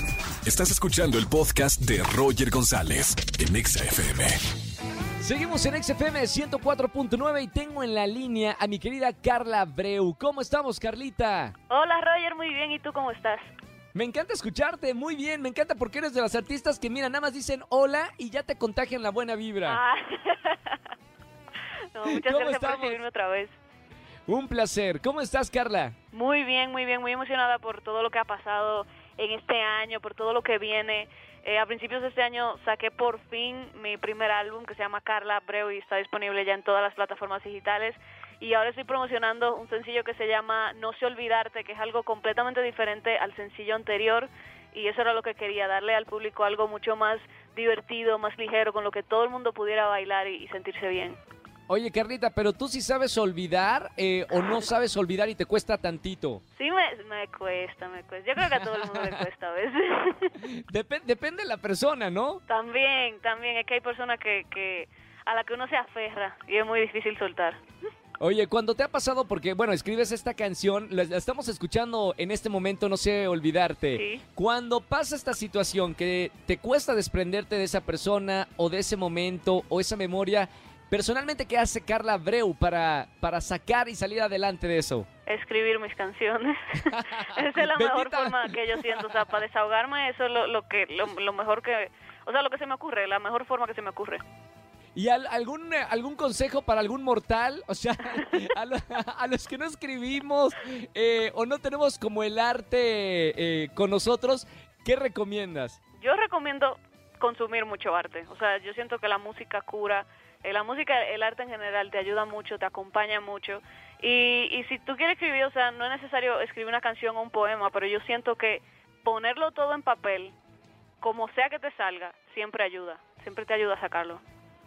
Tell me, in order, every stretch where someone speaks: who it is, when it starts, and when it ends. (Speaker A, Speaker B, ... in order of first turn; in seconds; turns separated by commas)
Speaker A: 0.5-4.4, Speaker B: 5.2-11.6, Speaker C: 11.7-13.5, Speaker B: 13.9-19.8, Speaker C: 19.6-20.8, Speaker C: 21.9-23.5, Speaker B: 22.1-23.0, Speaker B: 24.3-25.9, Speaker C: 26.1-51.2, Speaker B: 51.7-56.4, Speaker C: 56.5-60.5, Speaker B: 58.4-59.2, Speaker B: 60.4-62.4, Speaker C: 62.5-67.6, Speaker B: 68.2-85.1, Speaker C: 73.9-74.3, Speaker C: 85.3-94.2, Speaker B: 86.8-89.3, Speaker B: 95.0-105.8, Speaker C: 106.0-120.4, Speaker C: 121.0-124.2